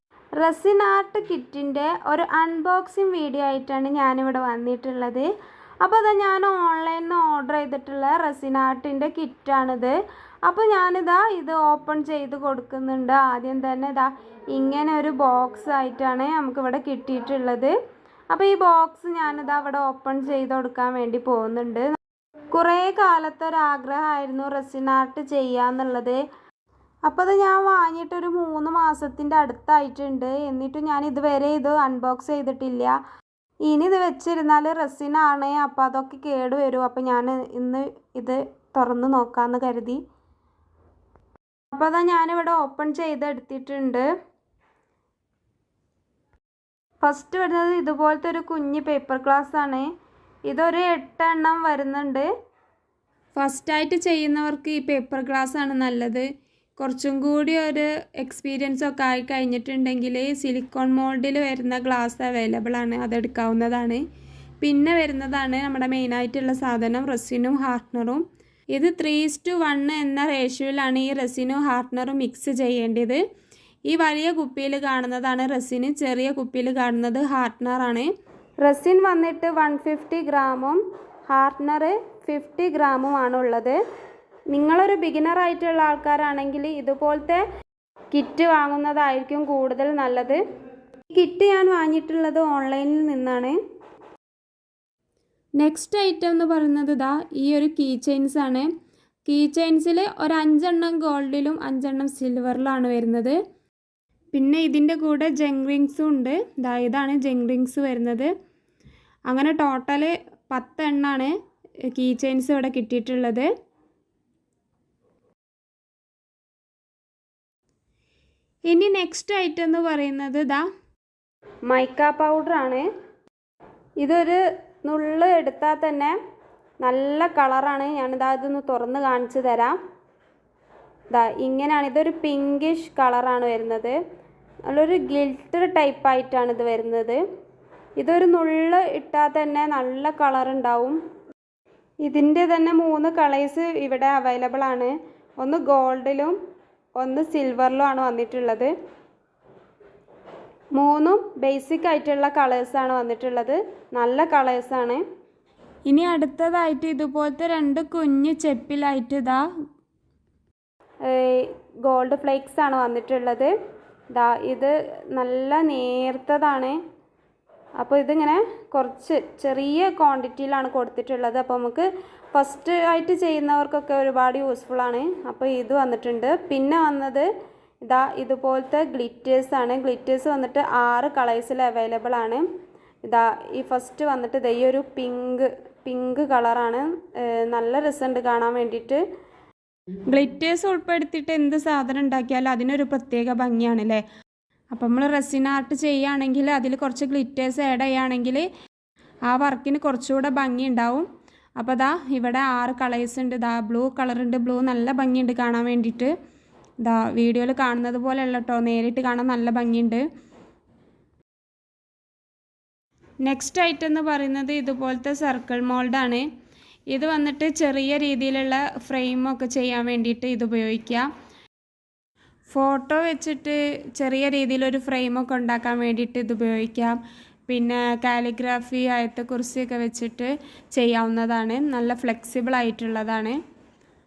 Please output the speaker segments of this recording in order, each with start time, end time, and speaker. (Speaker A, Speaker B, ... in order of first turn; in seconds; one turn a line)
Speaker A: 0.4-5.3
Speaker A: 5.8-17.8
Speaker A: 18.3-21.9
Speaker A: 22.5-26.2
Speaker A: 27.1-33.0
Speaker A: 33.7-40.0
Speaker A: 41.7-44.1
Speaker A: 47.0-49.9
Speaker A: 50.5-52.3
Speaker A: 53.4-56.3
Speaker A: 56.8-64.0
Speaker A: 64.6-73.2
Speaker A: 73.9-78.1
Speaker A: 78.6-83.8
Speaker A: 84.5-87.4
Speaker A: 88.1-90.4
Speaker A: 91.1-93.6
Speaker A: 95.6-98.7
Speaker A: 99.2-103.4
Speaker A: 104.3-108.3
Speaker A: 109.3-111.3
Speaker A: 111.9-113.5
Speaker A: 118.7-120.7
Speaker A: 121.7-122.8
Speaker A: 124.0-126.2
Speaker A: 126.8-129.8
Speaker A: 131.1-134.0
Speaker A: 134.7-137.2
Speaker A: 138.0-141.0
Speaker A: 142.1-146.4
Speaker A: 147.0-148.7
Speaker A: 150.8-155.0
Speaker A: 155.9-159.5
Speaker A: 161.1-163.5
Speaker A: 164.1-166.8
Speaker A: 167.8-177.3
Speaker A: 177.8-182.4
Speaker A: 183.1-189.0
Speaker A: 190.1-194.0
Speaker A: 194.7-198.5
Speaker A: 199.3-206.1
Speaker A: 206.8-210.1
Speaker A: 213.2-216.3
Speaker A: 216.9-221.1
Speaker A: 222.5-233.4